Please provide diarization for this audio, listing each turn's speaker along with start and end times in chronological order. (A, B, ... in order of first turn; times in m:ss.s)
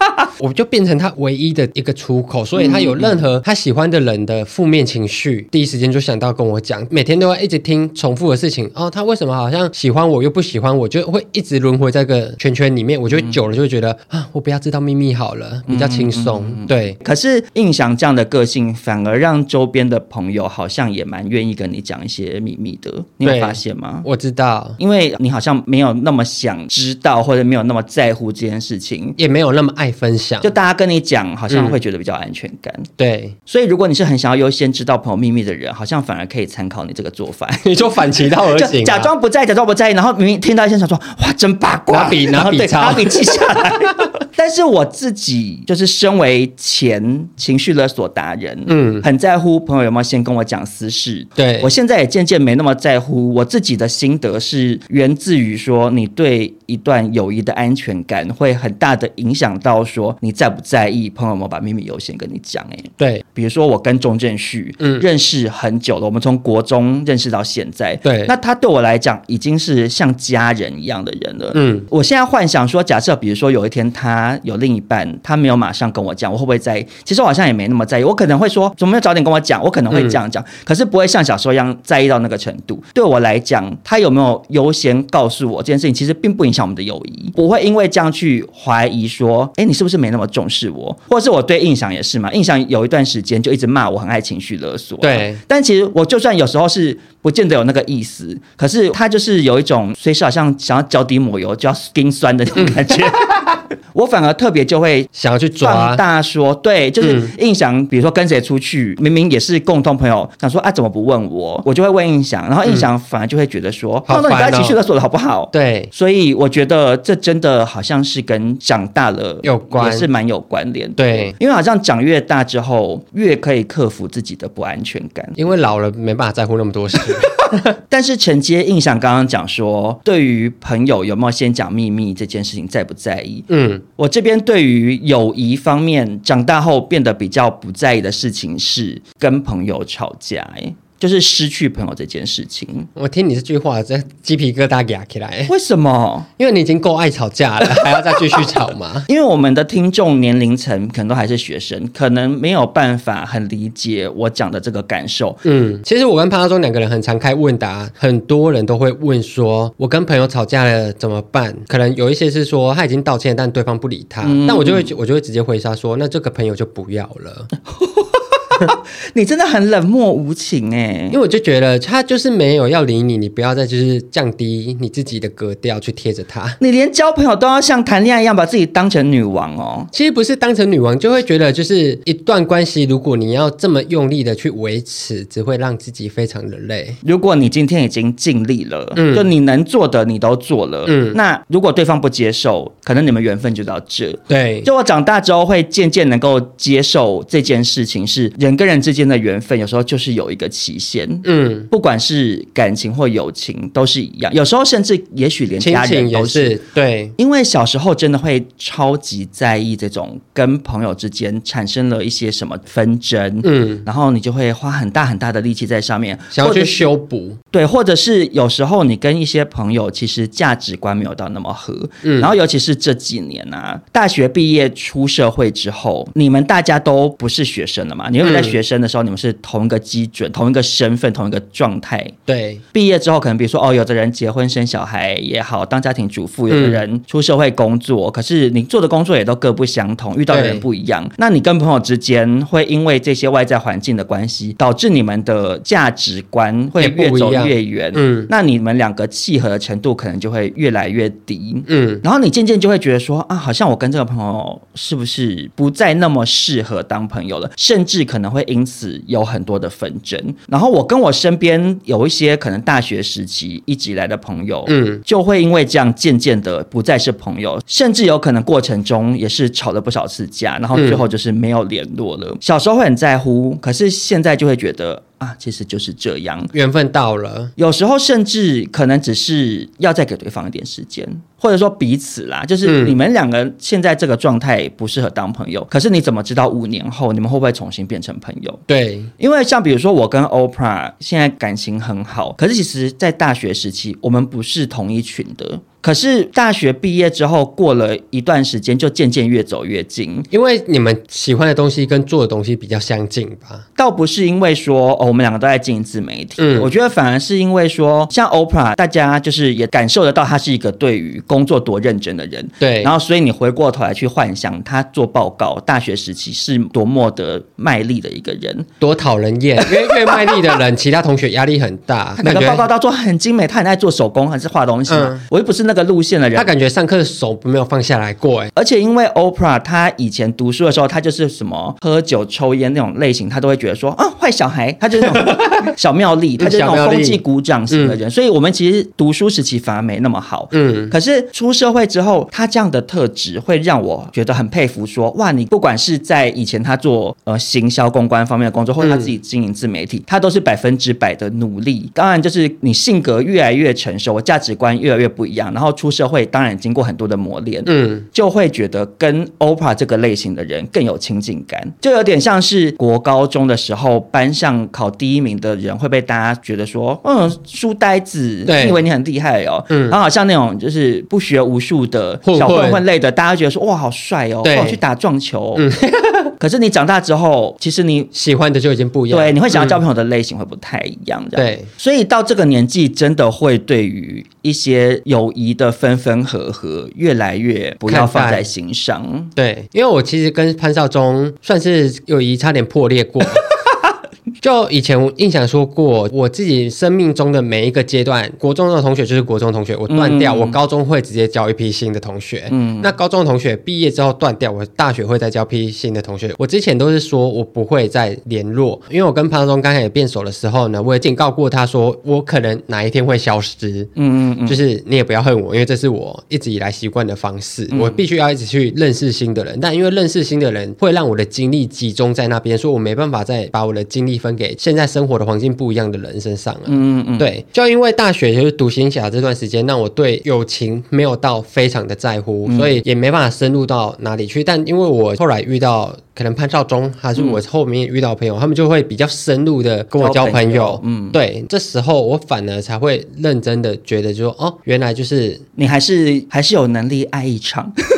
0:00.4-0:17.0 A
0:02.6-0:03.2 B
0:15.7-0:24.1 B
0:23.2-0:24.8 A
0:24.8-0:29.2 B
0:29.2-0:30.5 A
0:30.4-0:32.9 B
0:31.5-0:31.8 A
0:33.0-0:33.4 A
0:33.5-0:37.7 B
0:37.6-0:39.1 A
0:38.3-1:45.1 B
0:41.9-0:44.1 A
0:48.7-0:49.0 A
0:51.4-0:51.7 A
1:08.0-1:08.3 A
1:11.5-1:11.9 A
1:19.9-1:20.2 A
1:35.0-1:35.4 A
1:42.6-1:43.5 A
1:45.2-1:46.0 A
1:45.6-2:05.4 B
1:47.0-1:47.3 A
1:54.1-1:54.8 A
1:55.5-1:55.9 A
1:59.4-2:00.1 A
2:01.0-2:01.4 A
2:05.4-2:07.8 A
2:07.4-2:22.9 B
2:13.5-2:13.8 A
2:23.0-2:25.5 A
2:25.5-2:26.3 B
2:26.4-2:29.1 A
2:29.1-2:35.4 B
2:35.4-2:47.5 A
2:44.2-2:44.9 B
2:47.7-2:51.2 B
2:51.1-2:56.6 A
2:56.6-2:59.9 B
2:59.9-3:07.0 A
3:07.0-3:26.6 B
3:09.0-3:09.3 A
3:10.9-3:11.2 A
3:14.3-3:14.7 A
3:21.2-3:21.7 A
3:25.6-3:27.1 A
3:27.2-3:36.9 B
3:33.4-3:33.8 A
3:36.3-3:37.4 A
3:37.5-3:52.2 B
3:42.0-3:42.3 A
3:48.2-3:48.6 A
3:52.3-3:52.6 A
3:52.7-4:36.5 B
3:56.5-3:56.8 A
4:00.3-4:00.6 A
4:06.8-4:08.3 A
4:11.7-4:12.0 A
4:24.7-4:25.0 A
4:30.7-4:31.0 A
4:36.5-4:37.5 A
4:37.6-4:48.6 B
4:42.6-4:43.0 A
4:48.7-4:49.1 A
4:49.2-5:00.3 B
5:00.3-5:03.6 A
5:03.8-5:18.7 B
5:06.4-5:06.7 A
5:12.6-5:12.9 A
5:18.8-5:22.6 A
5:20.0-5:20.4 B
5:22.2-5:26.5 B
5:24.9-5:25.2 A
5:26.4-5:28.5 A
5:28.6-6:15.6 B
5:35.1-5:35.7 A
5:36.4-5:37.2 A
5:37.7-5:38.0 A
5:40.5-5:40.9 A
5:48.8-5:49.1 A
5:57.7-5:58.1 A
6:08.5-6:08.8 A
6:09.7-6:10.0 A
6:12.2-6:12.8 A
6:14.4-6:14.8 A
6:15.6-6:16.3 A
6:16.4-6:18.1 B
6:18.1-6:19.8 A
6:19.1-6:29.3 B
6:21.4-6:21.7 A
6:27.9-6:28.5 A
6:29.4-6:33.4 A
6:34.4-6:53.9 A
6:39.9-6:40.6 B
6:42.5-6:42.9 B
6:54.0-6:54.6 B
6:54.5-7:25.4 A
6:57.7-6:58.0 B
7:06.7-7:07.3 B
7:12.5-7:12.8 B
7:20.0-7:21.2 B
7:25.6-7:27.7 B